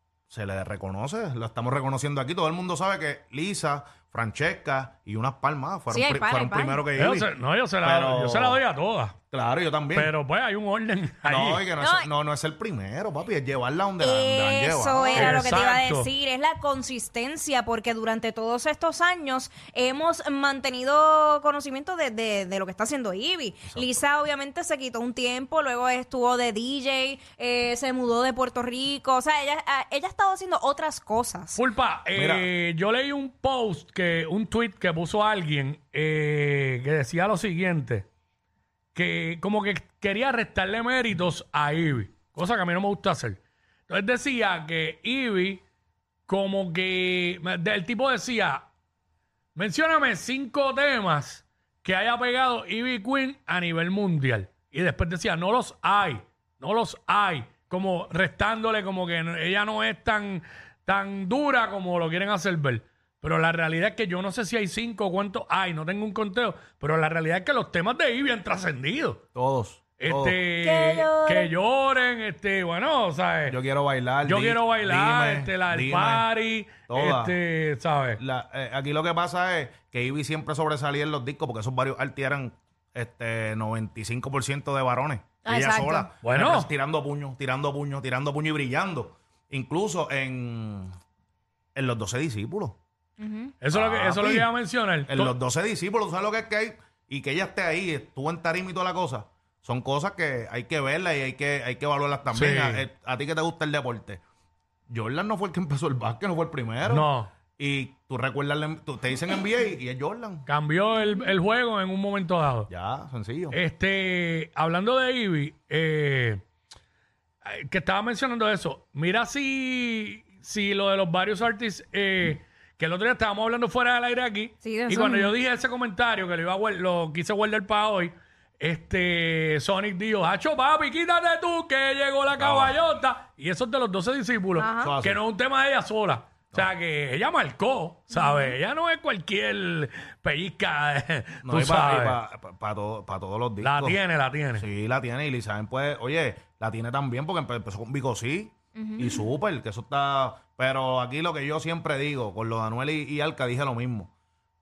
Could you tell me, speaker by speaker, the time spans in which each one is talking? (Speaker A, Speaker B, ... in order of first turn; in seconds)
Speaker A: 0.3-7.3, 7.8-8.6, 9.3-10.1, 11.2-15.4, 23.7-24.0, 32.1-32.5, 69.3-70.4, 73.5-76.3, 76.9-77.3, 78.2-90.9, 91.7-92.8, 93.7-94.5, 95.1-104.2, 104.9-110.5, 112.7-113.5, 132.3-132.8, 134.8-135.2, 141.4-144.0, 144.5-154.1
Speaker B: 5.9-6.8, 11.8-12.1, 14.0-31.6, 70.6-71.5, 85.5-86.1, 93.2-93.5, 124.6-125.3, 134.6-134.9, 138.1-138.5, 148.8-149.3
Speaker C: 7.0-9.2, 9.9-11.6, 15.1-16.1, 31.5-38.1, 38.9-45.6, 46.3-48.7, 49.5-69.2, 70.0-73.6, 74.2-78.2, 86.2-86.7, 93.6-95.3, 102.3-102.8, 106.8-107.3, 110.5-112.7, 113.5-116.4, 117.4-142.2, 143.6-144.7